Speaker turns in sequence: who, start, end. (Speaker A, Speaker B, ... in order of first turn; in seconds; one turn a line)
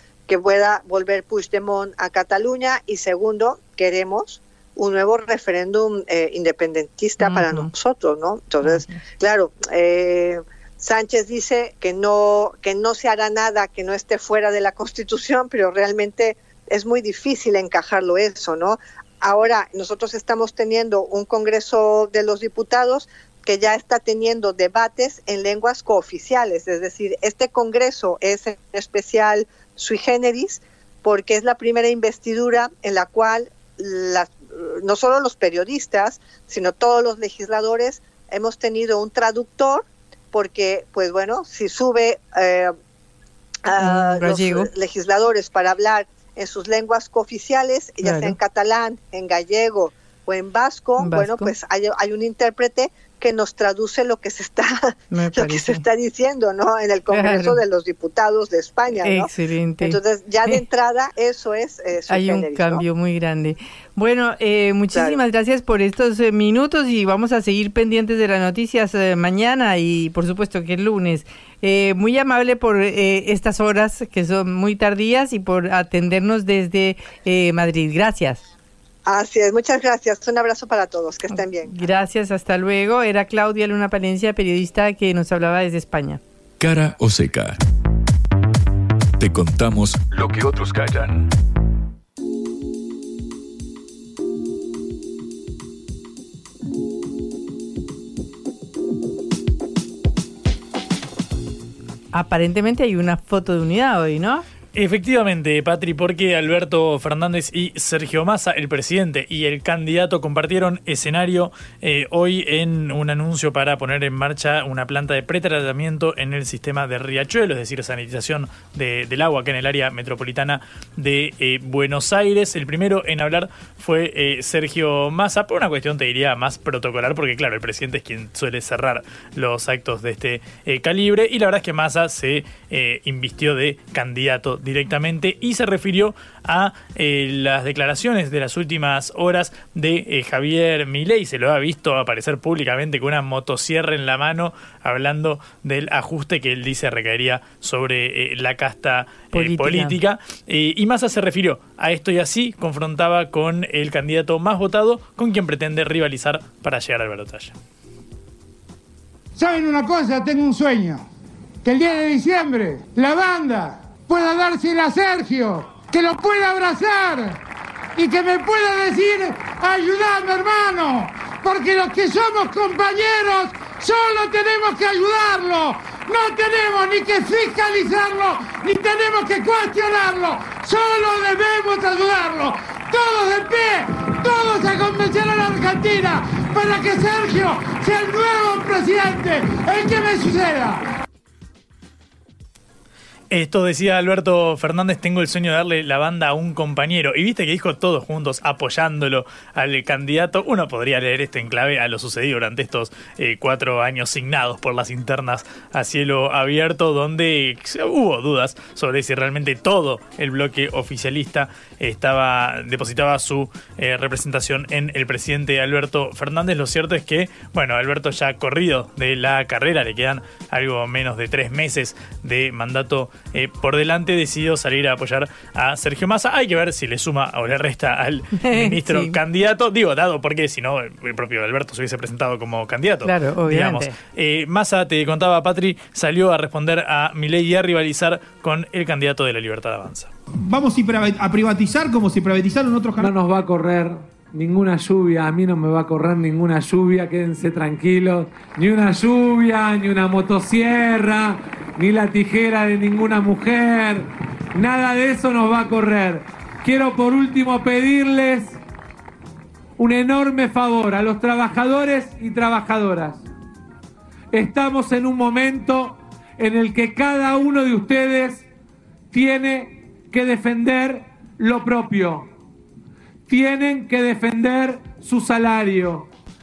Speaker A: 0.3-42.7
Speaker B: 7.2-7.7
Speaker B: 8.6-9.0
Speaker A: 43.7-59.3
Speaker B: 43.8-44.7
Speaker B: 48.0-48.4
Speaker B: 51.0-51.5
Speaker B: 55.1-55.9
Speaker B: 57.1-57.6
Speaker B: 59.0-60.6
Speaker A: 59.8-62.8
Speaker B: 62.1-78.4
Speaker A: 64.9-65.2
Speaker A: 79.1-81.8
Speaker B: 81.3-86.2
Speaker C: 86.6-87.6
Speaker C: 89.2-91.3
Speaker B: 102.1-104.5
Speaker D: 104.8-157.6
Speaker B: 149.3-150.0
Speaker E: 159.4-161.1
Speaker E: 161.6-167.4
Speaker E: 168.0-190.9
Speaker D: 193.3-240.1
Speaker B: 228.4-229.2
Speaker B: 233.1-233.9
Speaker F: 240.4-243.1
Speaker G: 243.0-258.6
Speaker G: 259.8-263.2
Speaker G: 264.3-268.5
Speaker G: 269.1-272.3
Speaker G: 273.3-276.1